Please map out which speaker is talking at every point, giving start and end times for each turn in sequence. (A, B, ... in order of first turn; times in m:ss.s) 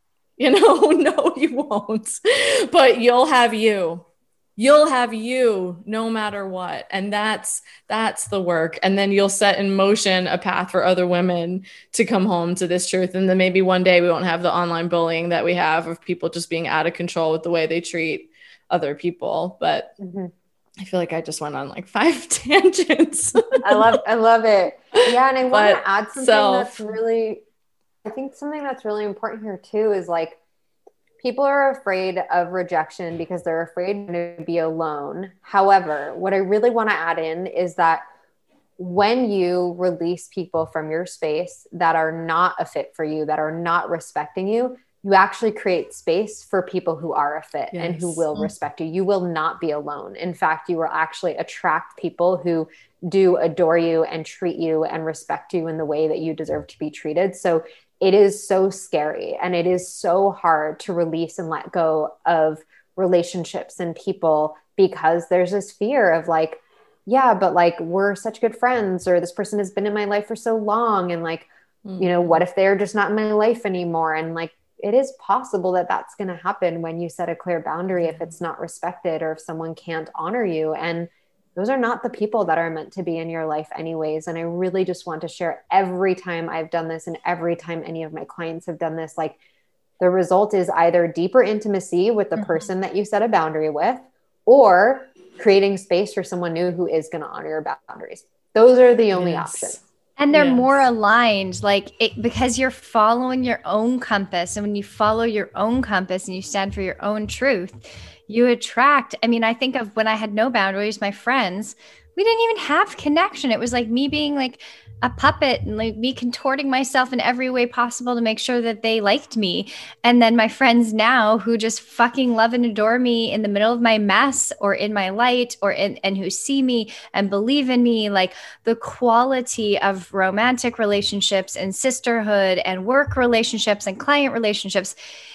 0:00.4-0:04.0 A
0:04.6-0:20.0 A
0:20.0-0:20.3 B
0:20.8-0:24.0 A
0:23.6-0:27.4 B
0:25.5-0:26.9 A
0:28.0-0:30.4 B
0:31.2-0:38.0 B
0:38.8-1:29.4 B
0:47.7-0:48.2 A
1:11.8-1:12.4 A
1:18.0-1:18.3 A
1:30.0-1:39.8 B
1:32.4-1:32.6 C
1:39.1-1:39.8 A
1:40.2-2:14.9 C
1:40.3-1:40.7 A